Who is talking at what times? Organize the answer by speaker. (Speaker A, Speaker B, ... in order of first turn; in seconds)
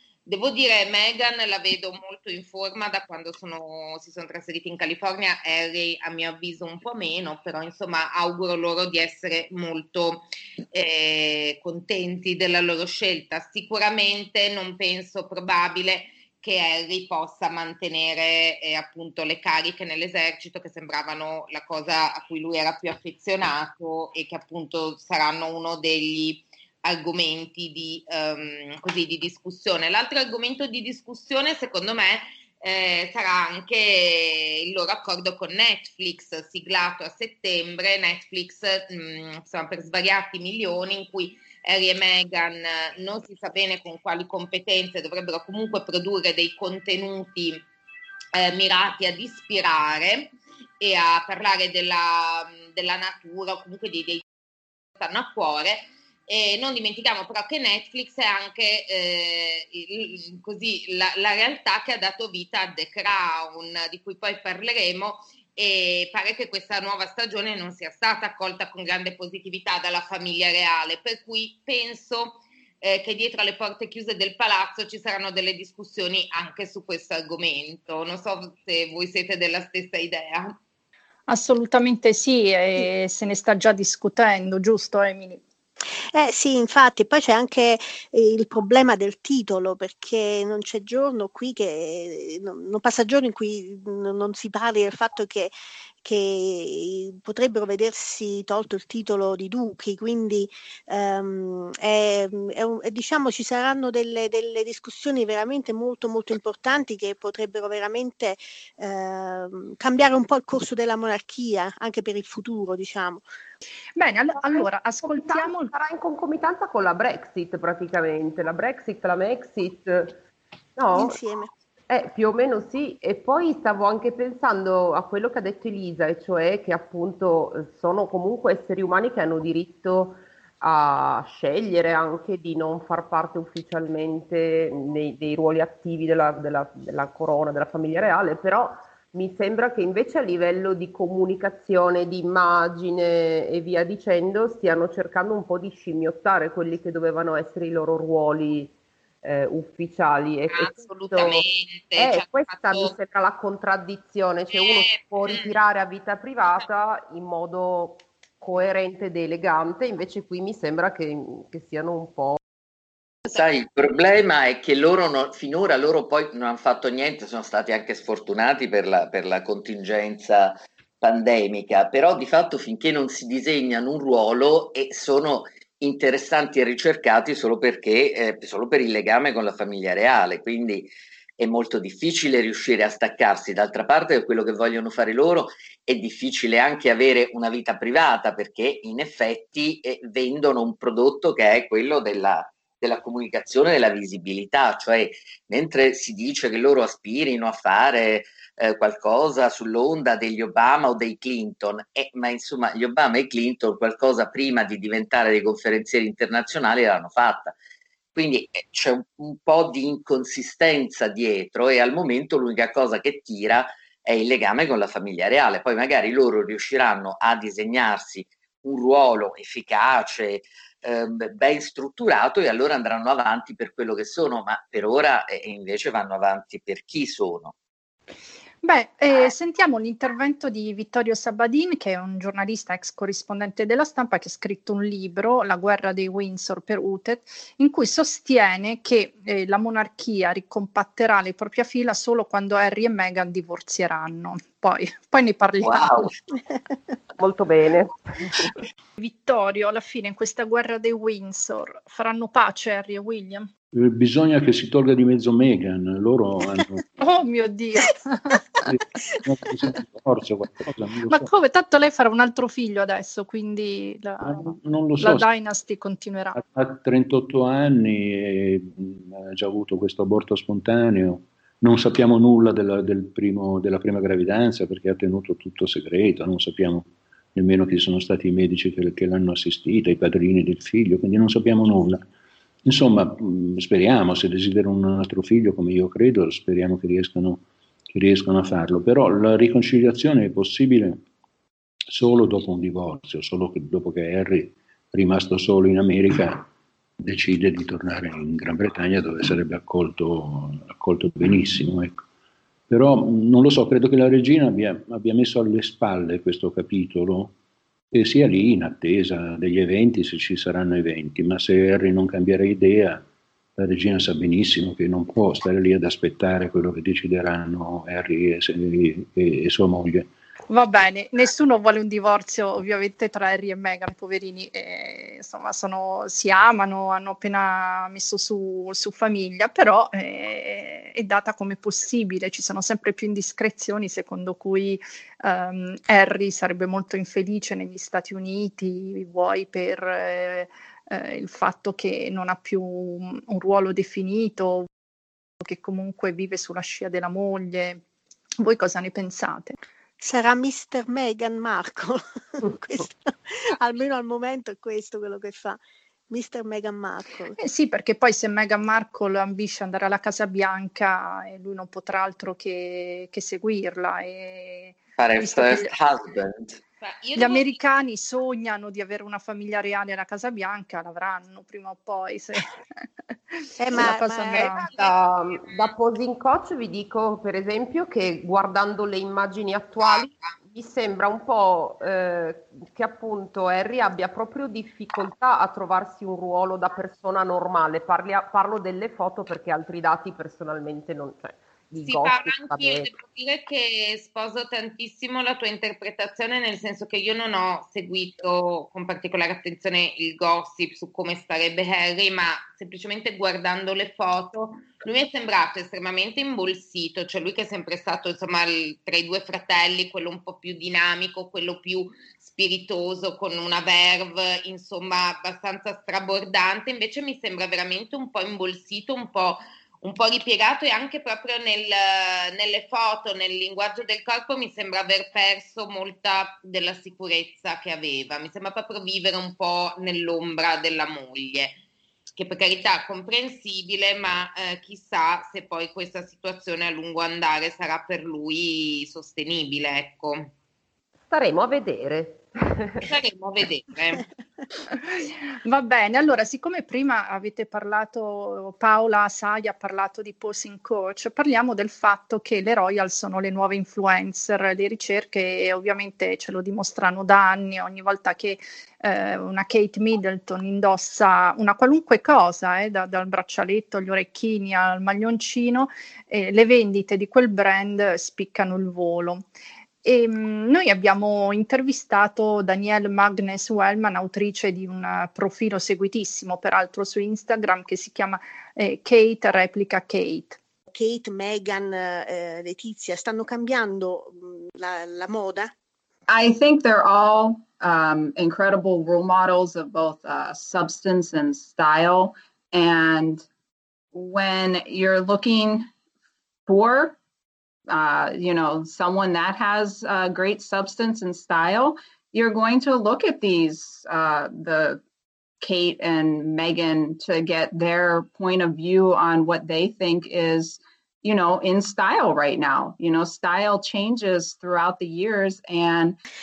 Speaker A: 0.3-47.6, 48.3-54.2, 55.0-80.6, 150.5-152.9, 154.5-155.5, 366.8-367.5, 375.5-375.7, 391.8-431.6, 432.1-440.3, 442.8-444.1
Speaker B: 81.3-85.4, 114.0-115.7, 228.6-246.1, 249.0-253.5, 257.0-258.4, 261.1-266.4, 320.5-344.7, 345.4-347.8, 348.4-349.6, 357.4-365.7, 367.2-374.7, 445.4-469.3, 469.8-480.4
Speaker C: 86.1-113.2, 120.9-121.5, 350.0-357.4, 373.6-374.6, 480.7-485.5
Speaker D: 114.3-120.2, 120.8-121.2, 121.9-151.4, 152.0-162.4, 247.2-248.6, 374.6-392.9, 441.1-442.9
Speaker E: 163.3-207.6, 208.2-227.5, 245.6-246.1, 365.0-366.6
Speaker F: 253.7-256.9, 258.6-261.3, 264.2-265.3, 266.4-282.1, 282.6-291.0, 291.9-302.0, 302.7-307.3, 307.9-313.0, 313.6-320.1
Speaker G: 486.1-493.3, 493.9-495.7, 496.5-497.0, 497.7-504.8, 505.4-516.0